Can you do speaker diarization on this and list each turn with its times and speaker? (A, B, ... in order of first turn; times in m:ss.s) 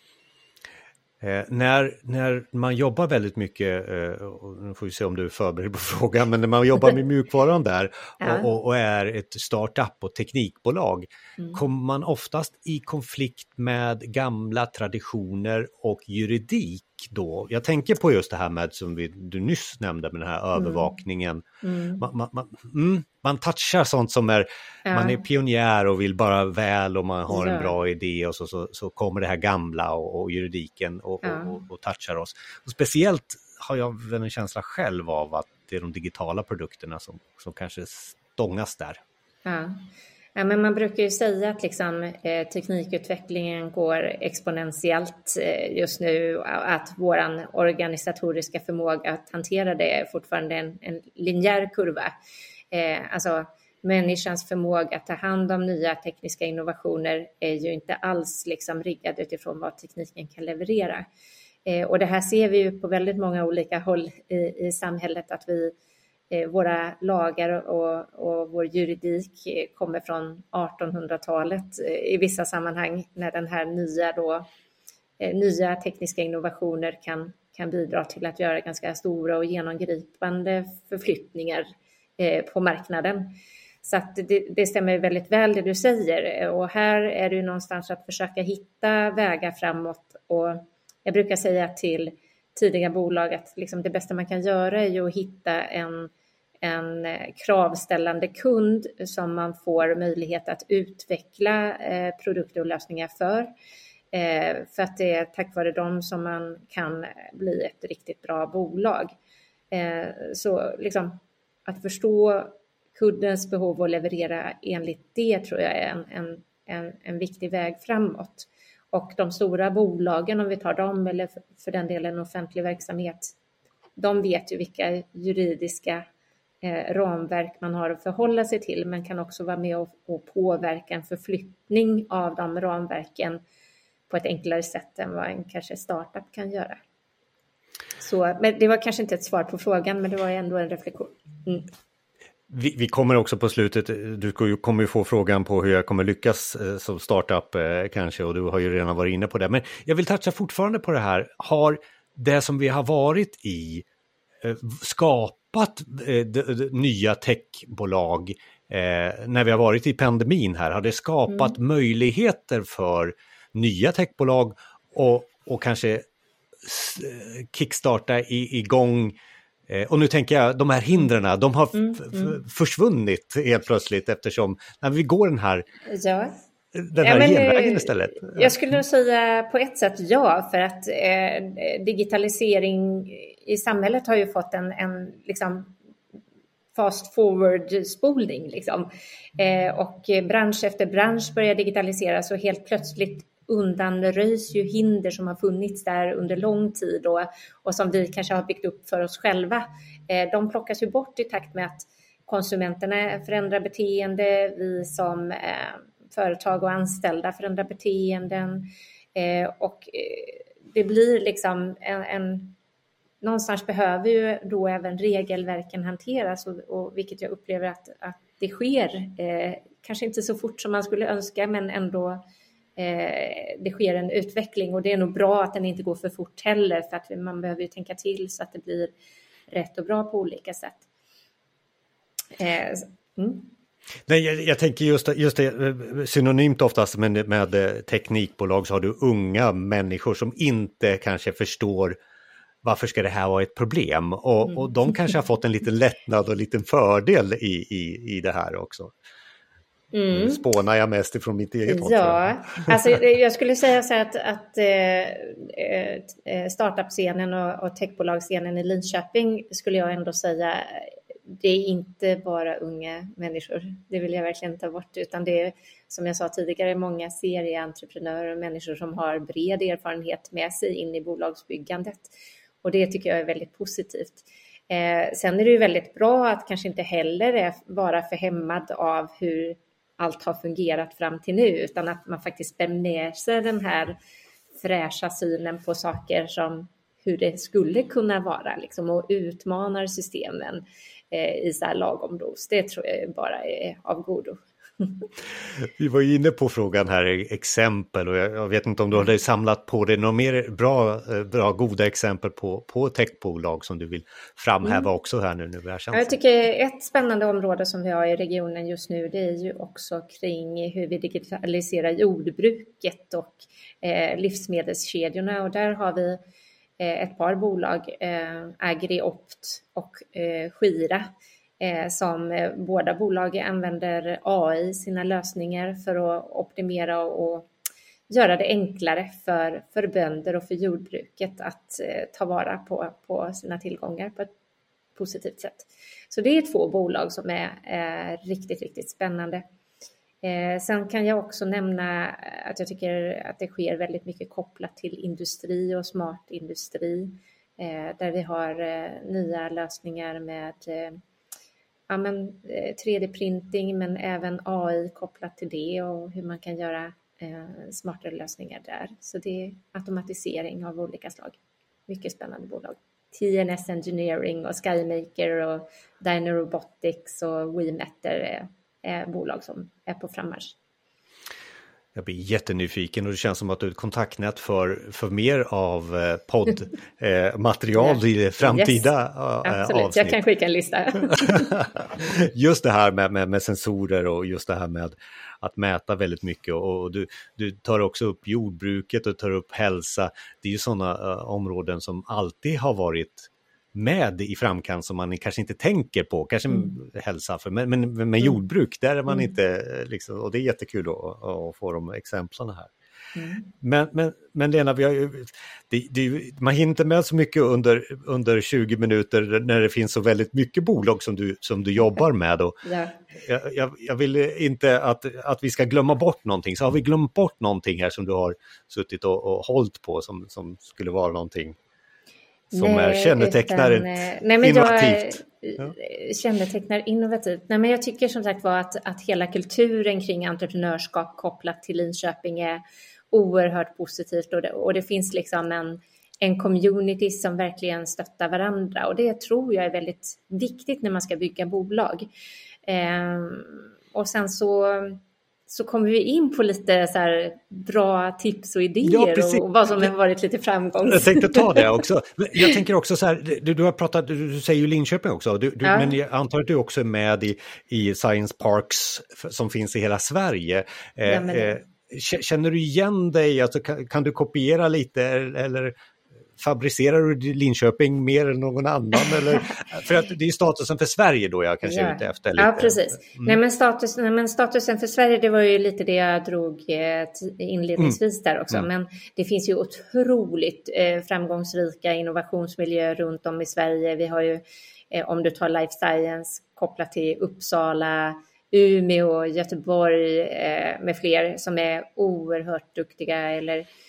0:01.2-0:21.4 A
0:08.2-0:08.5 B
0:20.6-0:20.9 B
0:21.6-0:22.0 B
0:22.0-0:39.0 A
0:24.8-0:25.2 B
0:27.3-0:27.7 B
0:31.2-0:31.5 B
0:39.4-0:39.8 B
0:40.3-0:52.1 B
0:52.7-1:01.0 B
1:01.6-1:05.7 B
1:06.3-1:14.5 B
1:15.2-1:21.6 B
1:22.2-1:43.5 B
1:44.1-1:49.1 B
1:49.7-2:03.3 B
2:04.0-2:06.0 B
2:06.6-2:13.4 B
2:14.1-2:16.8 B
2:18.0-2:21.7 B
2:22.5-2:33.8 A
2:34.4-2:46.0 A
2:46.6-2:49.2 A
2:49.7-2:55.6 A
2:51.7-2:52.4 B
2:55.9-2:56.3 B
2:56.7-2:58.5 A
2:57.0-3:05.7 B
3:06.7-3:32.6 B
3:33.2-3:42.2 B
3:42.8-3:48.9 B
3:49.5-3:50.8 B
3:52.4-3:53.5 B
3:54.1-4:02.0 A
4:02.6-4:08.9 A
4:09.9-4:10.4 B
4:10.1-4:12.7 A
4:11.7-4:32.1 B
4:32.6-4:44.0 B
4:44.6-4:55.0 B
4:55.8-5:06.2 A
5:05.9-5:16.2 B
5:16.8-5:21.1 B
5:21.6-5:27.5 B
5:28.1-5:34.3 B
5:34.9-5:39.4 B
5:40.2-5:51.0 B
5:51.9-6:10.5 B
6:11.9-6:20.2 A
6:17.8-6:18.9 B
6:19.4-6:21.5 B
6:21.1-6:42.7 A
6:43.1-6:43.4 B
6:43.5-6:52.5 A
6:52.6-6:53.0 B
6:53.1-7:01.6 A
7:02.5-7:05.7 A
7:02.5-7:22.1 B
7:22.6-7:31.6 B
7:28.8-7:29.4 A
7:30.8-7:45.7 A
7:35.6-7:35.9 B
7:41.0-7:41.6 B
7:46.4-7:53.4 A
7:51.6-8:13.6 B